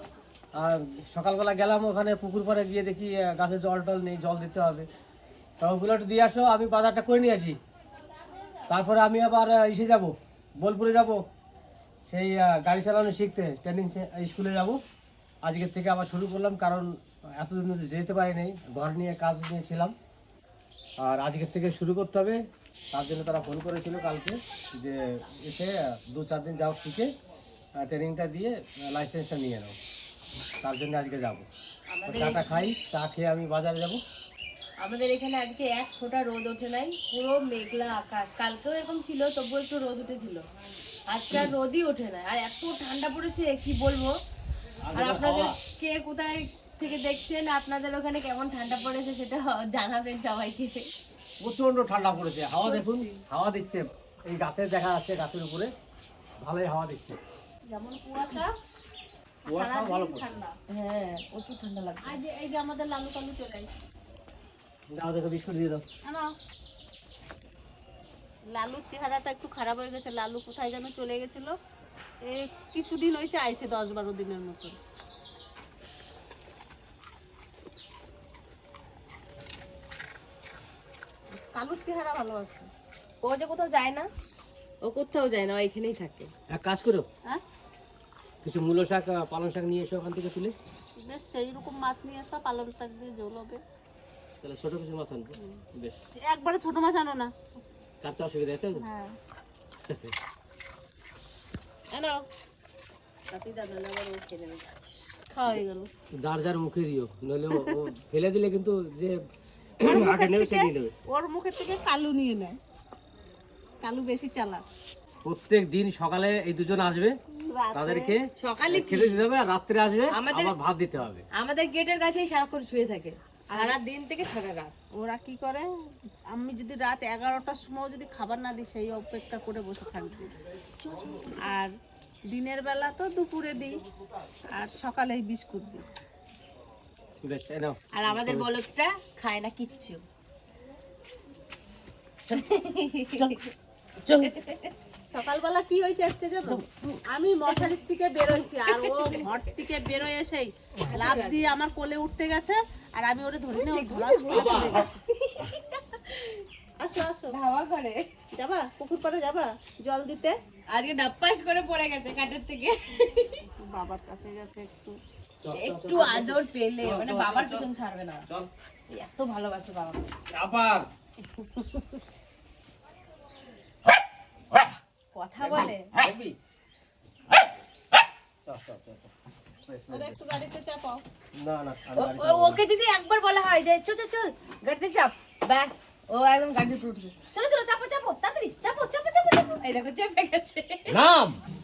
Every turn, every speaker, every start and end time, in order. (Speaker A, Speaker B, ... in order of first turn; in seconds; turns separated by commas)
Speaker A: 0.5-4.9, Speaker A: 5.6-7.6, Speaker A: 8.7-11.2, Speaker A: 12.1-14.8, Speaker A: 15.4-19.9, Speaker A: 21.0-22.4, Speaker A: 22.9-27.1, Speaker A: 27.8-29.8, Speaker A: 30.6-31.5, Speaker B: 31.9-32.7, Speaker A: 32.1-34.0, Speaker B: 34.8-40.4, Speaker B: 41.1-44.1, Speaker A: 44.8-45.6, Speaker B: 44.9-50.9, Speaker A: 51.4-55.7, Speaker A: 56.4-57.2, Speaker C: 57.7-58.5, Speaker C: 59.5-60.5, Speaker A: 59.5-60.3, Speaker B: 60.7-62.2, Speaker C: 62.0-63.7, Speaker A: 64.9-65.8, Speaker C: 66.0-66.3, Speaker C: 68.5-71.5, Speaker C: 72.2-74.8, Speaker C: 81.5-82.7, Speaker B: 83.2-84.1, Speaker B: 84.8-86.3, Speaker A: 86.5-87.1, Speaker A: 88.4-90.5, Speaker C: 91.0-93.6, Speaker A: 94.4-96.0, Speaker C: 96.2-97.3, Speaker A: 98.0-98.8, Speaker C: 98.8-99.2, Speaker A: 99.9-100.1, Speaker C: 101.9-102.2, Speaker B: 103.3-104.7, Speaker C: 105.3-105.9, Speaker A: 106.2-109.2, Speaker C: 107.5-107.8, Speaker A: 109.8-110.9, Speaker C: 109.8-112.6, Speaker C: 113.8-114.6, Speaker A: 115.2-117.2, Speaker C: 117.3-118.2, Speaker A: 117.7-121.2, Speaker B: 118.3-119.2, Speaker B: 120.1-120.5, Speaker B: 121.3-124.7, Speaker C: 123.5-123.8, Speaker C: 124.9-125.7, Speaker C: 126.3-130.4, Speaker B: 130.8-131.4, Speaker C: 131.4-131.7, Speaker C: 132.3-133.8, Speaker C: 134.5-135.8, Speaker A: 137.2-138.5, Speaker B: 137.9-140.0, Speaker B: 142.3-143.4, Speaker A: 144.1-144.3, Speaker B: 144.1-144.7, Speaker C: 145.1-155.0, Speaker B: 148.7-149.4, Speaker B: 150.8-151.5, Speaker B: 153.5-156.4, Speaker A: 154.3-154.8, Speaker C: 156.8-157.4, Speaker B: 157.3-158.0, Speaker C: 158.3-160.4, Speaker B: 160.7-163.4, Speaker C: 163.4-165.0, Speaker A: 165.4-167.7, Speaker B: 165.5-168.2, Speaker B: 168.9-170.1, Speaker A: 170.3-170.9, Speaker B: 171.4-171.8, Speaker B: 175.1-175.9, Speaker A: 175.4-176.3, Speaker A: 178.4-179.1, Speaker A: 179.7-180.2, Speaker C: 179.9-181.0, Speaker A: 181.3-182.6, Speaker B: 181.9-191.0, Speaker A: 190.9-191.4